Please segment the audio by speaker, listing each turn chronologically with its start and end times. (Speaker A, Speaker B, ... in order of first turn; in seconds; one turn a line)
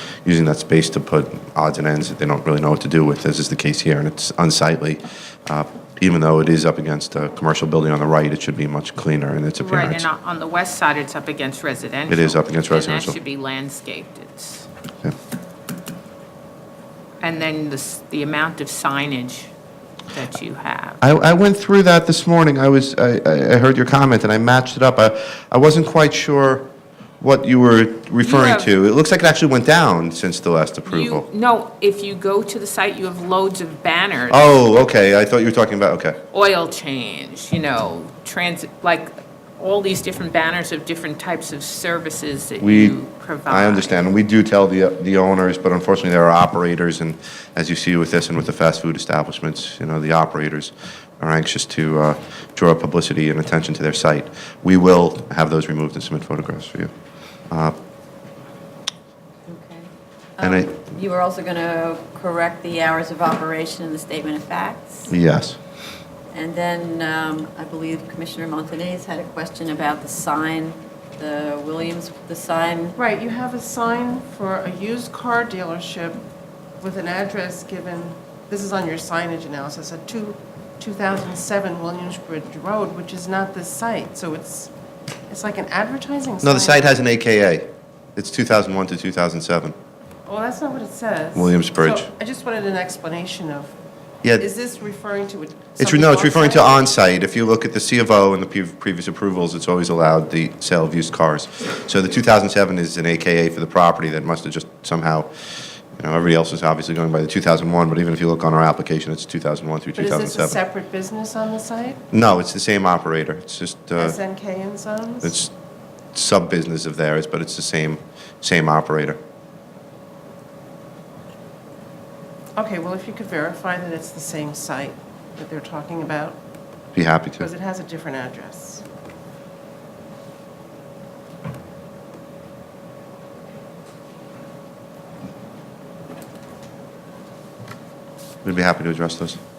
Speaker A: 0.2-10.1
Speaker B: 9.6-14.7
Speaker A: 12.1-13.2
Speaker B: 17.2-19.5
Speaker B: 20.1-21.0
Speaker A: 21.0-26.7
Speaker A: 27.2-31.3
Speaker B: 28.2-28.7
Speaker B: 30.9-34.6
Speaker A: 34.3-36.2
Speaker B: 36.3-44.0
Speaker A: 42.6-56.9
Speaker C: 59.5-65.1
Speaker A: 60.4-60.8
Speaker A: 65.1-65.6
Speaker C: 66.3-73.0
Speaker D: 73.0-76.2
Speaker D: 76.8-84.7
Speaker D: 85.3-87.0
Speaker A: 86.4-89.8
Speaker D: 90.3-93.7
Speaker A: 91.3-92.1
Speaker D: 94.4-96.8
Speaker A: 95.8-105.3
Speaker A: 106.0-110.6
Speaker D: 110.0-112.0
Speaker A: 112.1-114.2
Speaker D: 114.0-115.3
Speaker A: 115.2-115.5
Speaker A: 116.1-119.2
Speaker D: 122.6-126.4
Speaker A: 127.0-127.5
Speaker D: 127.4-128.8
Speaker A: 138.4-139.4